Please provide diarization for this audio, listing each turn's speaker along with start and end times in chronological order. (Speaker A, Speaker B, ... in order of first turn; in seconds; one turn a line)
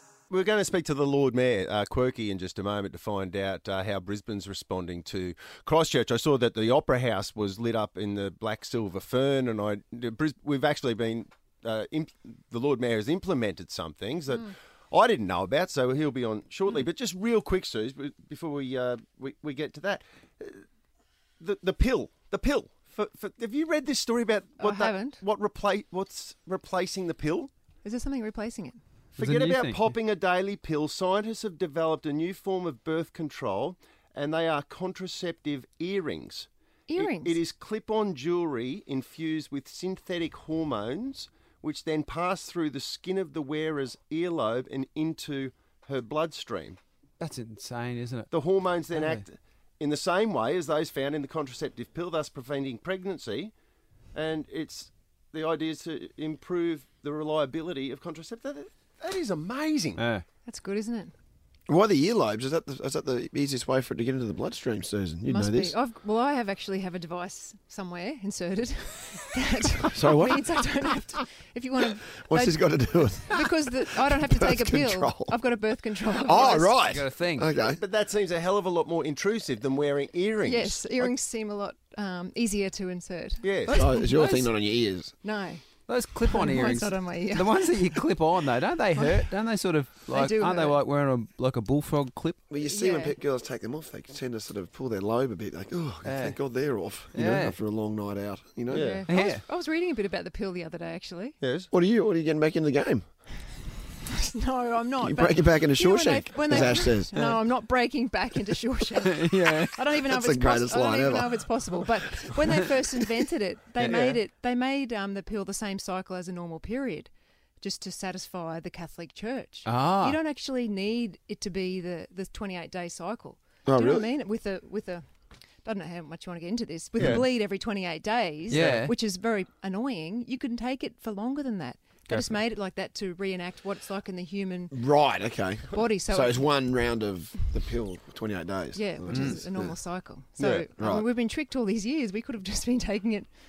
Speaker A: 0.3-20.6
Speaker A: 21.4-27.5
Speaker B: 24.6-25.2
Speaker B: 27.8-28.8
Speaker A: 29.1-46.8
Speaker C: 29.2-29.9
Speaker B: 36.9-37.4
Speaker C: 47.2-48.3
Speaker A: 48.3-53.5
Speaker C: 48.9-49.2
Speaker A: 54.1-60.0
Speaker C: 60.0-60.2
Speaker B: 60.4-61.1
Speaker D: 61.7-65.8
Speaker B: 65.2-76.8
Speaker D: 69.9-70.9
Speaker D: 72.2-75.5
Speaker D: 76.0-77.8
Speaker C: 76.6-77.5
Speaker A: 77.7-81.1
Speaker B: 80.4-84.1
Speaker A: 83.4-83.8
Speaker D: 83.7-85.1
Speaker C: 83.9-84.5
Speaker B: 85.2-85.6
Speaker C: 85.9-92.4
Speaker B: 86.2-88.1
Speaker B: 88.9-89.3
Speaker B: 90.1-90.8
Speaker D: 92.5-99.0
Speaker B: 92.6-93.2
Speaker C: 96.0-96.4
Speaker C: 97.1-97.5
Speaker A: 98.7-99.1
Speaker B: 98.7-101.4
Speaker C: 99.0-99.4
Speaker A: 101.4-101.7
Speaker D: 101.7-103.0
Speaker B: 104.1-125.0
Speaker D: 105.0-107.4
Speaker C: 109.1-109.7
Speaker D: 110.0-111.9
Speaker C: 113.8-114.2
Speaker C: 119.7-120.2
Speaker D: 123.7-124.1
Speaker B: 125.6-134.8
Speaker A: 127.0-127.2
Speaker C: 128.5-128.9
Speaker D: 134.7-139.8
Speaker B: 135.7-136.5
Speaker B: 138.7-143.3
Speaker A: 140.4-140.7
Speaker D: 140.7-141.1